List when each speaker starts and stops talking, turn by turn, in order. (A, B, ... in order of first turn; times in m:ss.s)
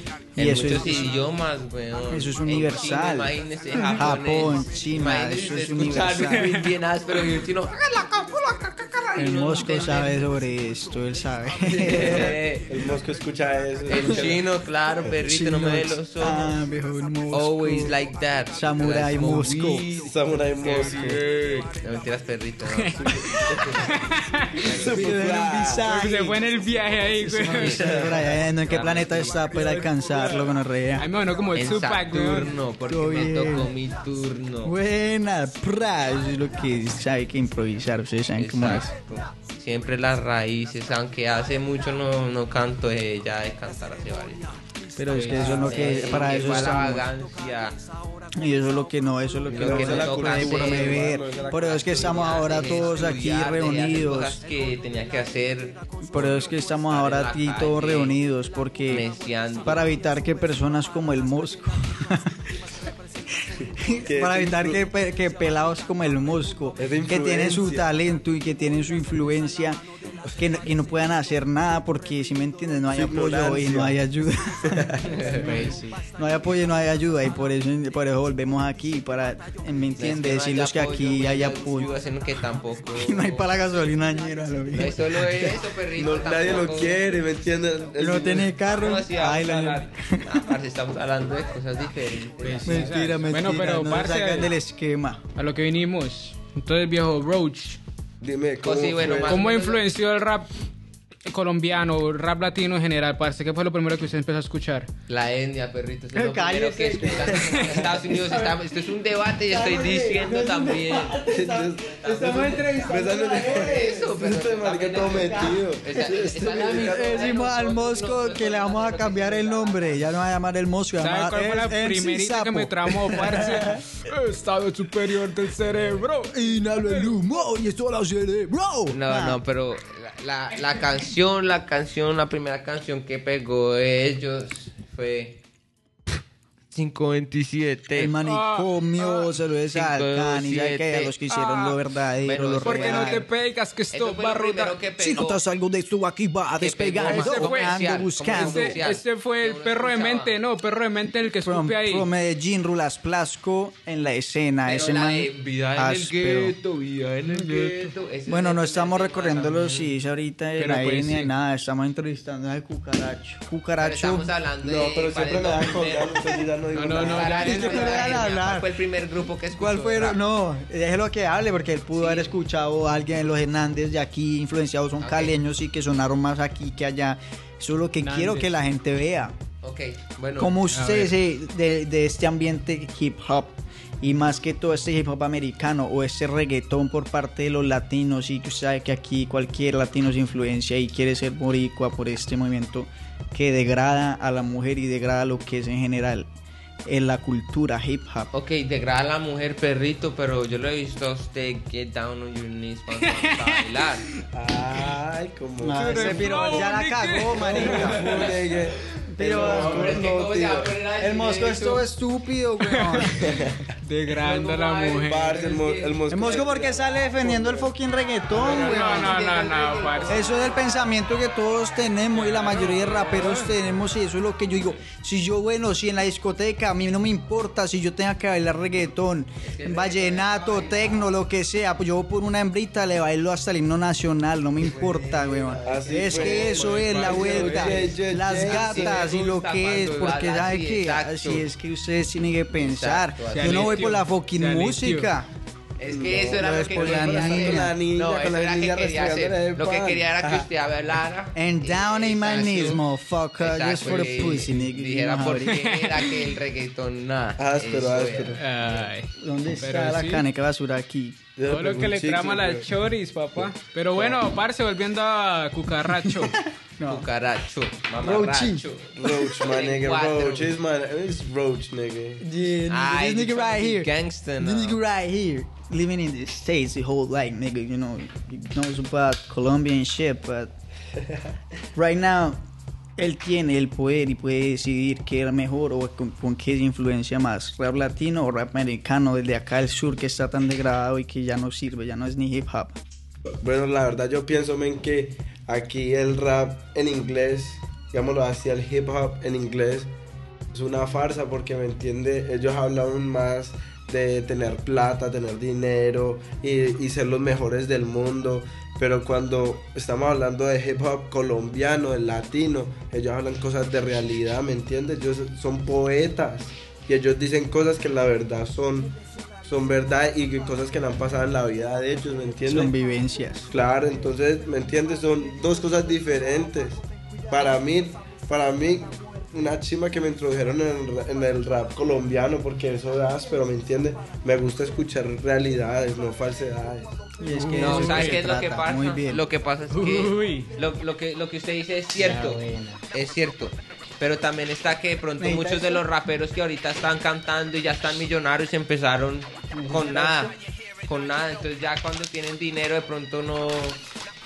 0:00.4-0:01.1 A
0:00.4-0:10.3 B
0:02.1-0:06.4 A
0:06.4-0:06.6 C
0:07.8-0:08.6 A
0:09.1-0:12.3 A
0:11.6-0:12.6 B
0:12.0-0:14.4 D
0:13.9-0:16.6 B
0:15.1-0:17.9 A
0:17.3-0:20.1 B
0:18.5-0:19.8 A
0:19.9-0:21.2 D
0:20.7-0:21.7 C
0:21.8-0:22.9 B
0:22.7-0:23.1 C
0:23.0-0:23.8 D
0:23.8-0:24.5 C
0:24.6-0:25.8 D
0:24.6-0:25.2 B
0:24.9-0:26.4 A
0:25.8-0:27.8 C
0:27.3-0:31.1 A
0:27.4-0:29.7 B
0:27.7-0:28.1 D
0:31.0-0:32.5 C
0:31.5-0:34.7 B
0:32.9-0:33.7 A
0:34.6-0:38.9 A
0:38.4-0:44.5 B
0:45.0-0:47.1 A
0:45.1-0:46.0 C
0:45.3-0:47.8 B
0:48.4-0:54.4 A
0:49.5-0:52.5 D
0:49.5-0:58.2 B
0:56.0-0:59.0 A
0:58.9-0:59.9 B
0:59.6-1:02.4 A
1:03.6-1:04.8 D
1:03.8-1:09.8 A
1:06.8-1:07.9 D
1:10.4-1:15.0 A
1:12.9-1:14.0 D
1:14.7-1:15.0 D
1:15.2-1:15.5 B
1:15.3-1:16.0 C
1:15.5-1:21.9 A
1:20.0-1:23.6 B
1:23.0-1:25.6 A
1:24.7-1:27.1 B
1:26.0-1:28.5 D
1:28.0-1:30.4 A
1:28.7-1:33.0 B
1:32.4-1:34.5 C
1:32.6-1:35.2 A
1:35.4-1:37.8 C
1:38.2-1:39.4 D
1:38.6-1:39.8 B
1:39.2-1:40.5 C
1:41.2-1:44.9 C
1:45.1-1:51.2 B
1:46.1-1:48.7 A
1:47.0-1:47.8 D
1:49.5-1:54.1 A
1:51.3-1:57.3 D
1:53.4-2:00.2 B
1:55.0-2:03.8 A
2:01.0-2:07.2 C
2:06.3-2:09.4 A
2:08.9-2:15.4 B
2:16.7-2:18.1 B
2:17.9-2:23.2 A
2:18.2-2:19.3 C
2:19.7-2:21.2 B
2:21.3-2:21.8 C
2:22.2-2:23.3 B
2:22.6-2:24.8 C
2:23.9-2:25.4 B
2:25.0-2:28.8 A
2:26.6-2:30.4 B
2:27.0-2:32.1 C
2:31.4-2:36.5 A
2:34.6-2:39.9 B
2:37.3-2:37.9 C
2:38.3-2:44.3 A
2:40.6-2:41.3 C
2:43.8-2:46.4 B
2:44.6-2:47.8 D
2:46.7-2:48.1 C
2:46.9-2:50.2 B
2:47.4-2:48.7 A
2:49.6-2:59.3 A
2:51.9-2:52.3 B
2:55.0-2:55.3 B
2:58.0-2:58.5 C
2:59.6-3:00.5 B
3:00.4-3:16.3 A
3:00.7-3:01.1 C
3:16.8-3:18.3 A
3:18.3-3:24.1 B
3:23.1-3:23.6 C
3:24.3-3:26.2 D
3:25.6-3:28.1 A
3:25.7-3:28.1 C
3:27.4-3:30.7 D
3:29.1-3:30.1 A
3:29.3-3:31.9 B
3:31.0-3:33.1 A
3:32.6-3:32.9 C
3:33.2-3:33.5 D
3:33.8-3:35.4 C
3:34.2-3:36.4 B
3:35.0-3:37.7 D
3:36.1-3:39.2 A
3:38.4-3:40.5 B
3:38.4-3:40.2 C
3:40.1-4:05.3 A
3:42.1-3:43.5 C
3:49.4-3:51.2 B
3:54.7-3:56.5 B
3:55.6-3:59.1 D
3:56.4-3:57.9 C
3:58.2-4:01.5 B
4:02.5-4:03.8 B
4:03.3-4:05.1 C
4:05.8-4:12.8 B
4:05.9-4:10.5 D
4:06.4-4:07.7 A
4:11.3-4:15.5 A
4:13.4-4:18.4 B
4:14.0-4:14.6 C
4:15.4-4:16.2 C
4:17.4-4:18.4 D
4:18.4-4:20.2 C
4:19.2-4:21.2 A
4:21.4-4:22.7 D
4:21.5-4:26.4 C
4:23.4-4:24.2 D
4:25.9-4:27.0 A
4:26.9-4:30.5 B
4:28.0-4:28.6 A
4:29.0-4:32.2 D
4:32.2-4:40.5 A
4:32.7-4:34.8 B
4:41.7-4:42.4 A
4:43.0-4:52.8 A
4:53.4-4:59.9 D
5:00.5-5:22.7 D
5:22.5-5:23.5 A
5:23.5-5:37.0 D
5:37.2-5:39.2 A
5:37.3-5:38.2 C
5:37.6-5:53.8 B
5:39.7-5:40.5 C
5:42.0-5:42.8 C
5:45.2-5:45.8 A
5:49.6-5:50.0 A